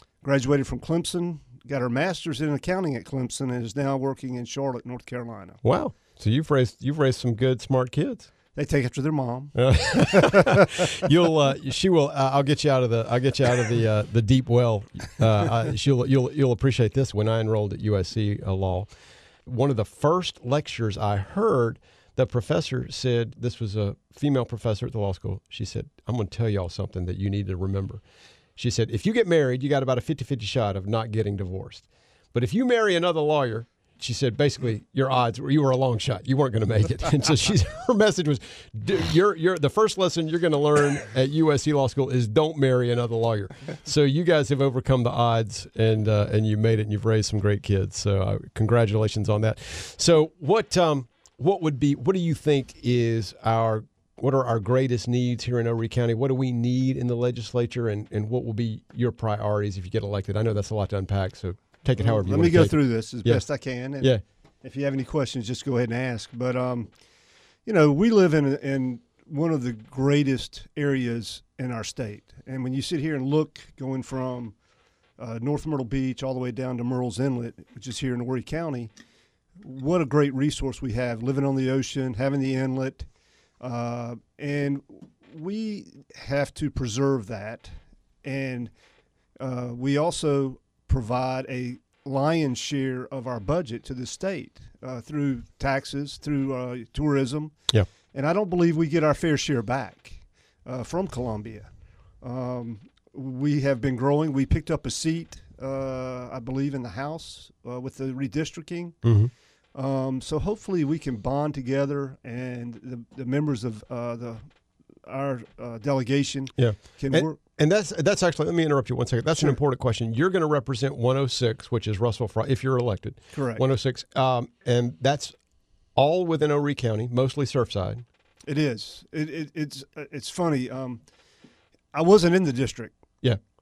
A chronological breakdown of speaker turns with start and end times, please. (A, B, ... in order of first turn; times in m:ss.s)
0:00.2-0:05.6 A
0:05.6-0:08.3 B
0:08.5-0:10.6 A
0:09.5-0:18.9 B
0:19.4-0:28.0 B
0:28.6-1:04.2 B
1:02.0-1:06.9 A
1:07.6-1:14.6 A
1:15.2-1:18.9 A
1:19.6-1:23.1 A
1:23.6-1:28.7 A
1:29.4-1:37.6 A
1:38.1-1:49.2 A
1:49.0-1:49.3 B
1:49.7-1:54.5 A
1:55.0-1:57.4 A
1:56.6-2:05.3 B
1:59.3-1:59.6 A
2:03.3-2:03.6 A
2:05.9-2:08.0 B
2:08.4-2:11.0 A
2:11.9-2:13.0 A